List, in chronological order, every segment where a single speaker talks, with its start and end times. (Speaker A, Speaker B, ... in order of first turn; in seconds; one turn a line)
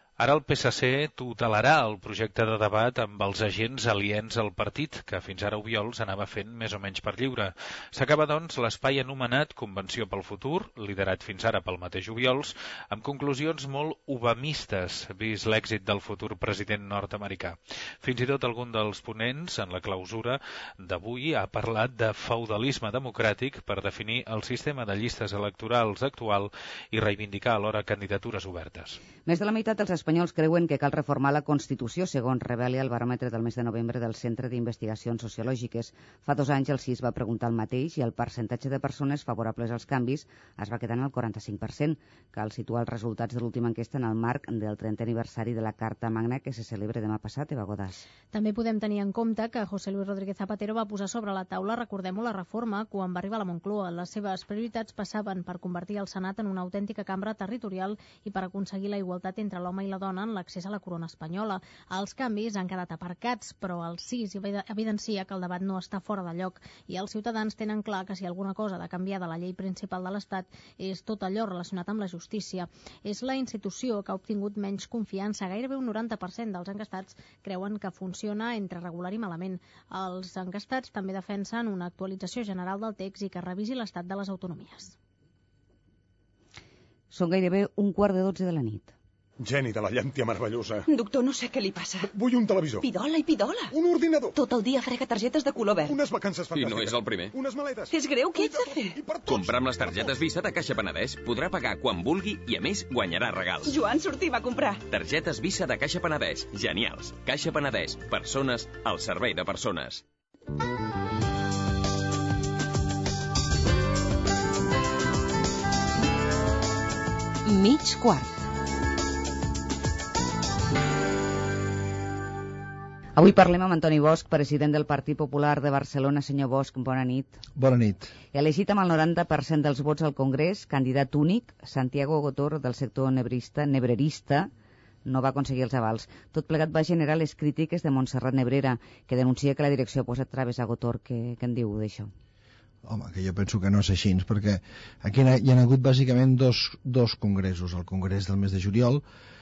Speaker A: 0.2-29.0
Speaker B: 29.3-48.0
Speaker C: 48.3-85.0
Speaker B: 87.1-88.9
Speaker D: 89.4-90.9
Speaker E: 90.9-92.0
Speaker D: 92.0-92.9
Speaker E: 92.8-93.7
Speaker D: 93.7-94.4
Speaker E: 94.3-96.0
Speaker D: 95.8-100.1
Speaker F: 96.6-97.3
Speaker E: 97.9-99.0
Speaker F: 99.4-103.7
Speaker E: 103.7-104.8
Speaker F: 104.9-109.9
Speaker E: 117.5-118.3
Speaker B: 123.2-127.4
Speaker G: 127.6-128.1
Speaker B: 128.3-134.5
Speaker B: 135.1-142.1
Speaker G: 142.8-149.0